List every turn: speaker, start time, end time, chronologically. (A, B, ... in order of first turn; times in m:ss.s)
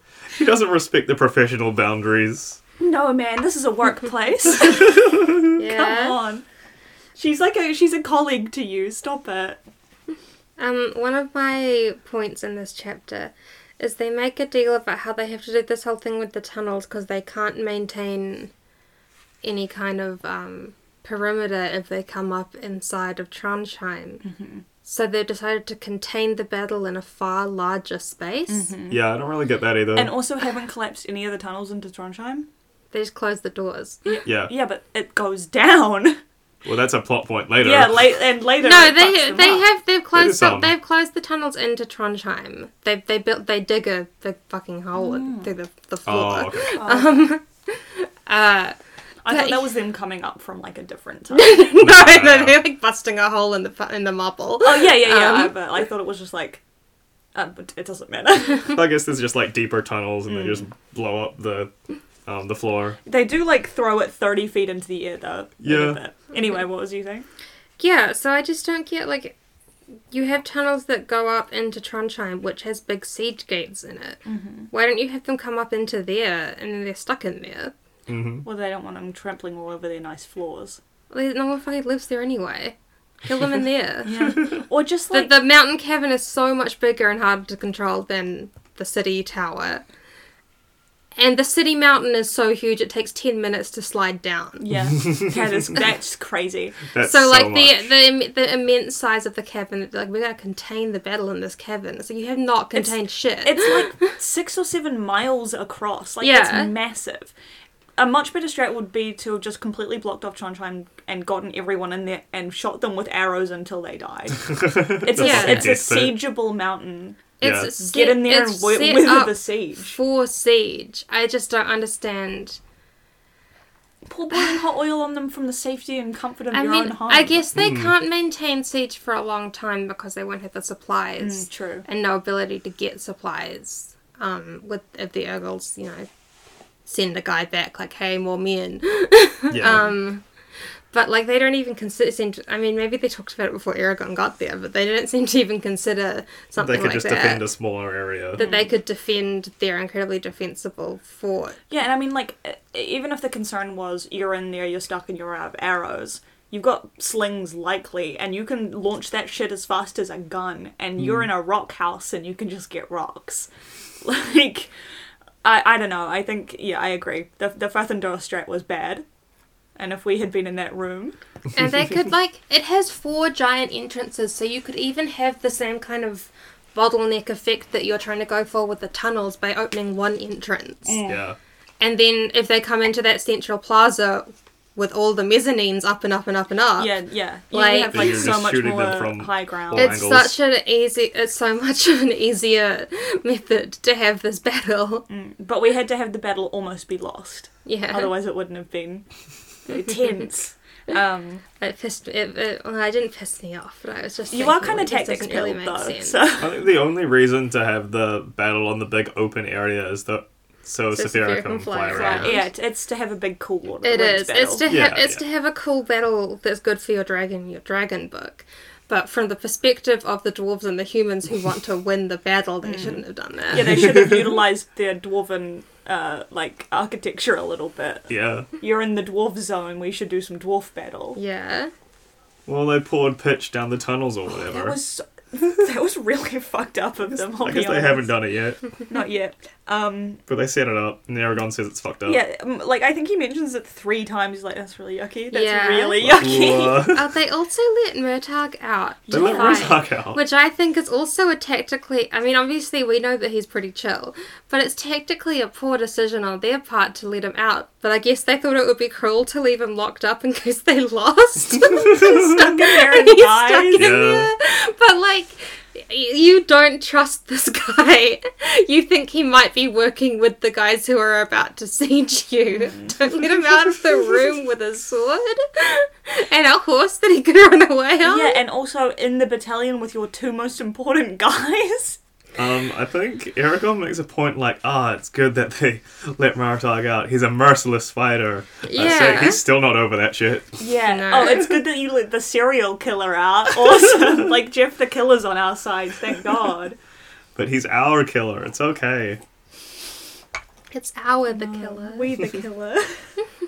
0:00.3-0:02.6 A
0:02.8-0:06.4 B
0:05.6-0:06.2 C
0:07.2-0:09.6 B
0:10.6-0:18.5 C
0:19.4-0:24.2 C
0:24.2-0:24.6 B
0:24.8-0:28.7 C
0:28.5-0:29.2 B
0:28.9-0:30.2 A
0:29.9-0:32.5 B
0:32.9-0:34.0 C
0:34.0-0:36.2 B
0:34.2-0:34.5 A
0:36.6-0:38.2 A
0:37.6-0:39.7 B
0:38.6-0:48.8 C
0:40.1-0:40.7 A
0:44.9-0:45.5 B
0:46.0-0:46.8 A
0:46.7-0:47.3 B
0:49.2-0:51.9 B
0:49.3-0:49.7 C
0:51.3-0:55.5 C
0:51.8-0:52.6 A
0:54.6-0:56.6 B
0:57.3-0:58.8 B
0:58.7-1:01.7 A
1:00.3-1:00.6 B
1:02.2-1:03.0 A
1:03.0-1:07.2 B
1:05.6-1:06.0 A
1:07.8-1:09.3 C
1:10.1-1:14.2 C
1:14.2-1:14.7 B
1:14.7-1:17.7 C
1:18.1-1:18.4 A
1:18.4-1:20.8 B
1:21.1-1:24.5 C
1:24.0-1:25.4 B
1:25.1-1:29.8 C
1:31.2-1:34.6 C
1:34.6-1:36.8 B
1:36.9-1:37.8 A
1:37.0-1:44.1 C
1:42.7-1:47.3 B
1:46.2-1:46.7 C
1:48.0-2:00.0 B
1:54.5-1:56.2 A
1:55.2-1:55.7 C
1:57.4-2:02.6 C
1:57.4-1:57.7 A
2:04.1-2:07.4 B
2:06.5-2:16.1 C
2:07.5-2:07.9 A
2:11.2-2:11.9 B
2:16.8-2:20.2 C
2:19.5-2:19.9 A
2:20.9-2:27.5 C
2:26.6-2:28.4 A
2:28.3-2:31.6 C
2:28.4-2:28.7 B
2:31.7-2:43.5 B
2:44.0-2:44.7 B
2:45.4-2:49.0 B
2:49.8-2:51.2 B
2:51.5-3:01.0 C
3:00.8-3:01.2 B
3:01.1-3:01.4 A
3:01.8-3:07.0 C
3:06.8-3:10.1 B
3:07.5-3:08.2 C
3:07.9-3:10.4 A
3:09.7-3:15.0 C
3:15.1-3:19.0 B
3:17.6-3:18.1 C
3:19.6-3:21.4 B
3:21.6-3:26.2 C
3:24.3-3:26.6 B
3:26.4-3:32.4 A
3:30.9-3:32.4 C
3:31.9-3:34.6 B
3:33.8-3:43.9 C
3:34.7-3:35.2 A
3:42.6-3:51.2 B
3:43.7-3:44.1 A
3:48.1-3:48.5 A
3:51.1-3:51.7 C
3:52.4-3:54.8 A
3:54.4-3:58.1 B
3:57.4-3:58.6 A
3:58.9-4:00.2 B
4:00.3-4:02.2 A
4:02.0-4:06.9 B
4:05.3-4:38.4 C
4:06.0-4:07.1 A
4:09.1-4:09.8 B
4:09.1-4:10.2 A
4:21.8-4:23.9 B
4:23.7-4:24.3 A
4:32.7-4:33.0 B
4:38.0-4:42.0 B
4:42.4-4:50.6 A
4:48.6-4:49.4 C
4:50.6-4:56.8 B
4:50.8-4:51.5 C
4:57.4-4:59.2 A
5:00.7-5:02.2 C
5:01.3-5:03.0 B